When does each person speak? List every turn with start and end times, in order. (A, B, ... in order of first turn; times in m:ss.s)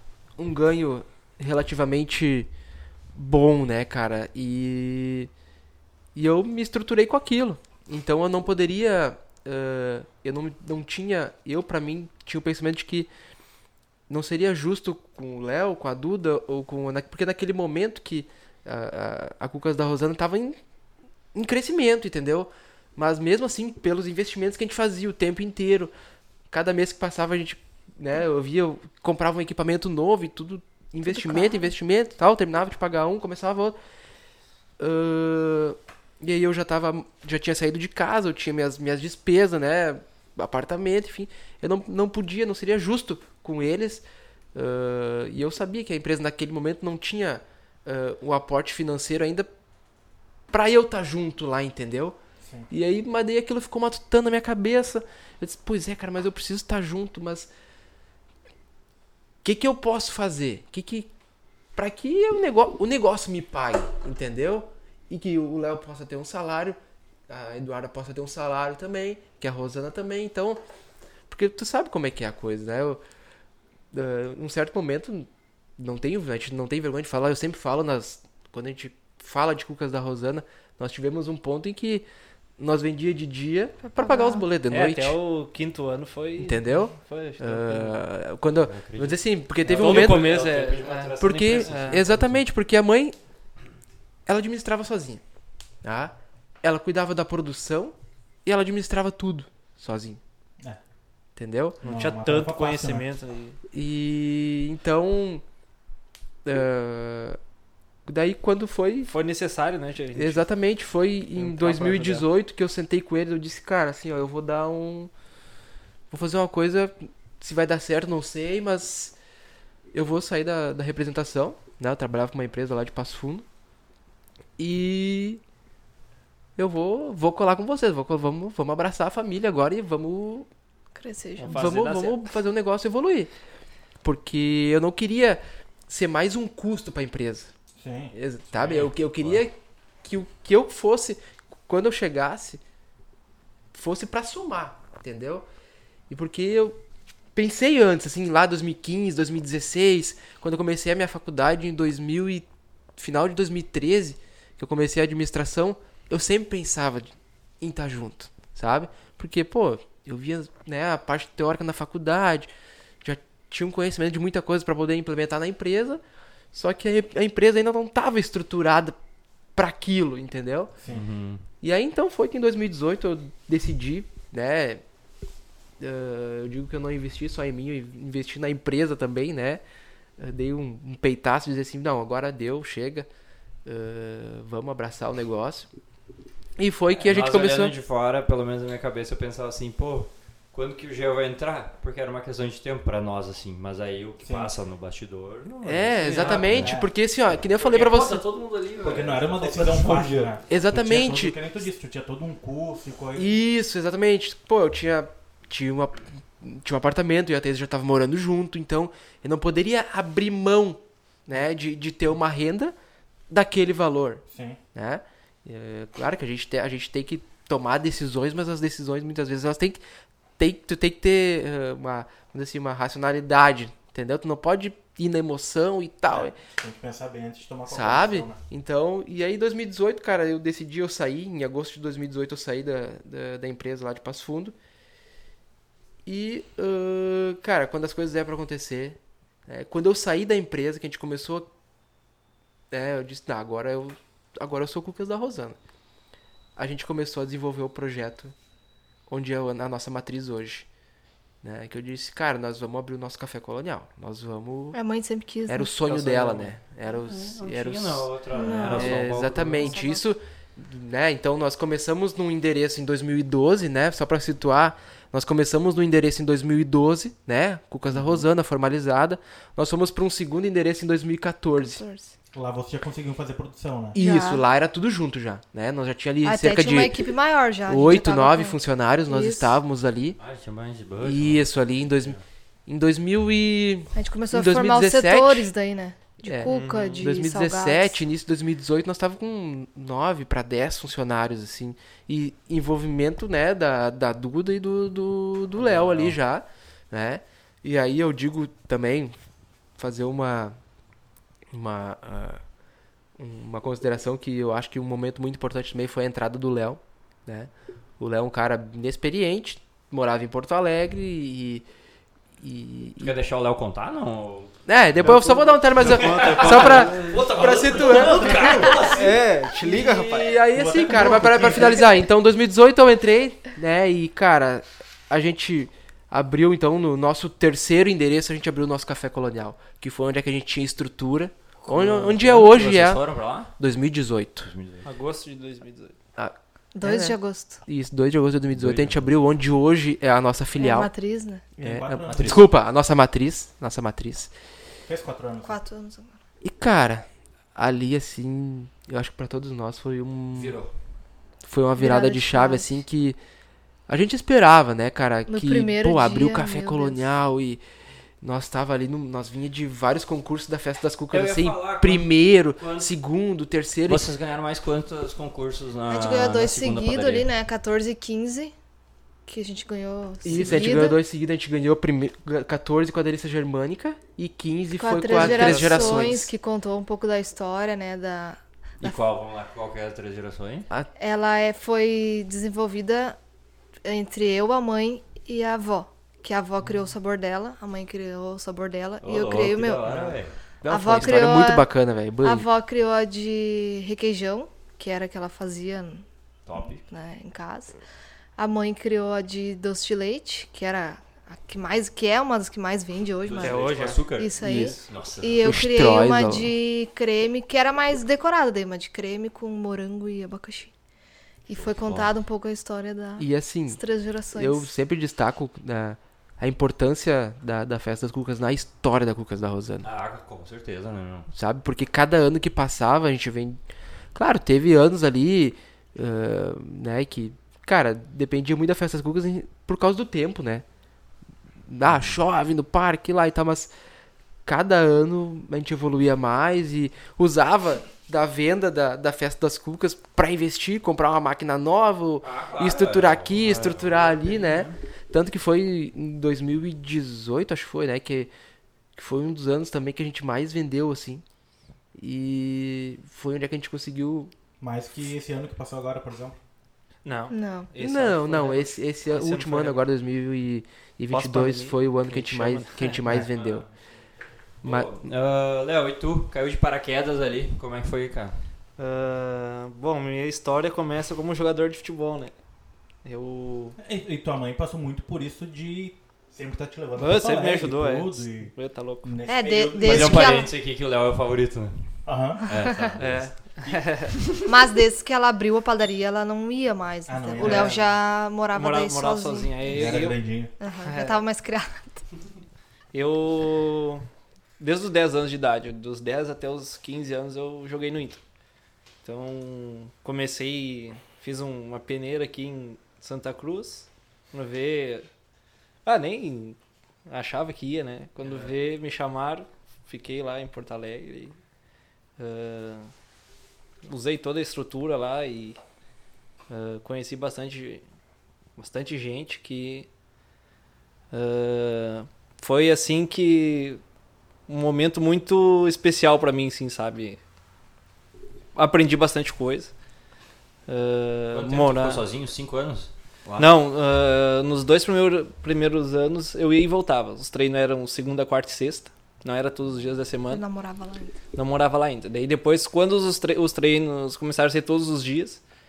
0:00.4-0:02.5 A
0:03.1-0:05.3 A
0:06.1-0:13.1 A
0:14.1-0:20.6 A
0:21.3-0:25.9 A
0:26.5-0:33.8 A
0:31.0-0:31.7 B
0:34.8-0:49.5 A
0:50.5-0:52.2 A
0:52.4-0:52.7 C
0:52.7-0:57.5 A
0:59.4-1:01.1 A
1:01.8-1:06.8 A
1:07.3-1:10.6 A
1:11.3-1:13.0 A
1:13.9-1:22.0 A
1:22.6-1:25.2 A
1:23.9-1:24.4 B
1:24.7-1:28.0 D
1:26.4-1:30.3 A
1:28.6-1:32.4 E
1:29.6-1:32.1 D
1:31.2-1:33.2 A
1:34.2-1:35.2 A
1:35.8-1:40.2 A
1:41.4-1:41.8 A
1:41.8-1:43.6 D
1:41.8-1:43.0 C
1:43.7-1:45.4 A
1:46.4-1:47.4 A
1:48.0-1:49.1 A
1:49.1-1:50.4 D
1:50.1-1:55.1 A
1:51.3-1:52.3 D
1:56.1-1:59.2 A
1:59.9-2:03.4 A
2:04.6-2:05.4 A
2:06.6-2:10.5 A
2:10.9-2:11.8 B
2:11.4-2:12.2 D
2:11.5-2:13.3 A
2:14.0-2:17.5 A
2:17.8-2:18.1 C
2:18.1-2:22.6 A
2:18.6-2:19.4 E
2:23.7-2:25.4 A
2:26.1-2:26.8 A
2:27.3-2:32.4 A
2:33.0-2:42.5 A
2:43.0-2:46.0 A
2:46.5-2:49.0 A
2:49.6-2:50.7 A
2:50.9-2:51.4 E
2:51.6-2:54.8 A
2:55.8-2:59.6 A
3:00.2-3:03.1 A
3:03.6-3:05.7 A
3:06.6-3:07.7 A
3:06.9-3:16.8 E
3:14.2-3:14.5 C
3:15.6-3:18.2 A
3:16.2-3:16.9 C
3:17.3-3:20.4 E
3:18.8-3:23.3 C
3:20.5-3:21.4 A
3:23.2-3:32.7 A
3:33.3-3:39.8 A
3:34.3-3:34.6 C
3:40.4-3:46.4 A
3:46.1-3:48.4 C
3:47.7-3:54.5 A
3:56.0-4:01.5 A
4:02.7-4:05.6 A
4:06.6-4:08.3 A
4:09.1-4:10.7 A
4:11.4-4:14.8 A
4:14.7-4:15.7 B
4:15.5-4:31.8 A
4:15.9-4:16.5 D
4:15.9-4:19.8 E
4:18.3-4:19.0 B
4:19.6-4:20.1 B
4:31.6-4:32.1 B
4:32.3-4:34.0 C
4:33.9-4:37.0 A
4:33.9-4:34.4 B
4:36.2-4:39.6 B
4:37.7-4:40.2 A
4:40.2-4:42.2 E
4:41.0-4:45.5 A
4:43.9-4:48.0 B
4:46.2-4:59.1 A
4:46.4-4:47.1 D
4:55.6-4:56.2 E
4:59.8-5:00.6 A
5:01.5-5:02.4 A
5:03.2-5:11.6 A
5:12.4-5:13.1 A
5:13.0-5:15.2 E
5:14.6-5:33.0 A
5:15.8-5:19.1 E
5:16.1-5:19.1 C
5:16.1-5:17.0 D
5:18.8-5:20.4 D
5:20.5-5:22.0 C
5:31.7-5:32.3 D
5:31.8-5:33.5 E
5:33.6-5:34.5 A
5:34.4-5:34.9 E
5:34.8-5:35.9 D
5:36.2-5:40.9 A
5:36.7-5:37.6 B
5:38.5-5:39.1 E
5:40.6-5:41.4 B
5:41.6-5:44.3 A
5:41.6-5:42.5 C
5:42.1-5:42.5 E
5:44.9-5:45.6 C
5:45.4-5:46.2 B
5:46.4-5:50.6 A
5:50.3-5:50.7 E
5:51.4-5:53.2 A
5:51.8-5:52.7 B
5:53.9-5:57.6 A
5:55.3-5:57.1 B
5:58.2-6:04.0 A
6:01.1-6:02.9 E
6:03.8-6:07.3 E
6:05.9-6:08.5 B
6:09.3-6:11.0 B
6:10.2-6:16.3 A
6:14.8-6:18.9 B
6:15.1-6:16.1 E
6:18.8-6:20.7 E
6:20.9-6:23.2 B
6:23.8-6:29.8 B
6:29.0-6:30.4 E
6:30.6-6:32.5 A
6:30.7-6:31.7 B
6:32.2-6:36.0 B
6:36.4-6:36.8 E
6:36.9-6:37.8 B
6:38.4-6:50.7 B
6:43.2-6:45.6 E
6:43.4-6:44.0 D
6:44.4-6:44.8 A
6:45.4-6:46.5 A
6:51.5-6:54.7 B
6:51.5-6:52.1 E
6:53.2-6:53.8 A
6:54.3-6:59.9 A
6:59.8-7:01.3 E
7:01.3-7:03.6 A
7:04.1-7:10.6 A
7:11.7-7:13.7 A
7:14.4-7:28.3 A
7:22.2-7:24.8 E
7:29.0-7:31.2 A
7:32.0-7:34.3 A
7:34.6-7:36.4 C
7:37.0-7:39.8 D
7:37.3-7:37.7 B
7:37.8-7:43.7 A
7:41.1-7:43.0 D
7:43.3-7:43.6 E
7:44.6-7:44.9 A
7:44.6-7:48.4 E
7:48.8-7:52.3 D
7:53.0-7:53.8 D
7:53.8-8:00.4 C
7:57.0-7:59.2 D
7:59.2-8:00.5 B
7:59.8-8:03.3 E
8:02.0-8:02.6 C
8:03.0-8:04.2 D
8:04.4-8:09.7 B
8:07.1-8:07.7 C
8:07.4-8:08.0 D
8:08.5-8:10.2 D
8:09.7-8:10.5 C
8:10.6-8:12.0 B
8:10.8-8:11.2 D
8:12.9-8:14.0 D
8:14.6-8:18.2 D
8:19.0-8:25.1 D
8:25.8-8:26.6 D
8:27.1-8:31.4 D
8:28.2-8:28.5 E
8:32.2-8:32.9 D
8:33.8-8:35.6 D
8:36.5-8:37.8 D
8:38.6-8:39.9 D
8:41.1-8:43.8 D
8:44.5-8:47.2 D
8:48.5-8:49.7 D
8:50.7-8:52.0 D
8:51.3-8:53.5 E
8:53.4-9:00.4 D
9:00.3-9:01.2 B
9:01.3-9:05.4 D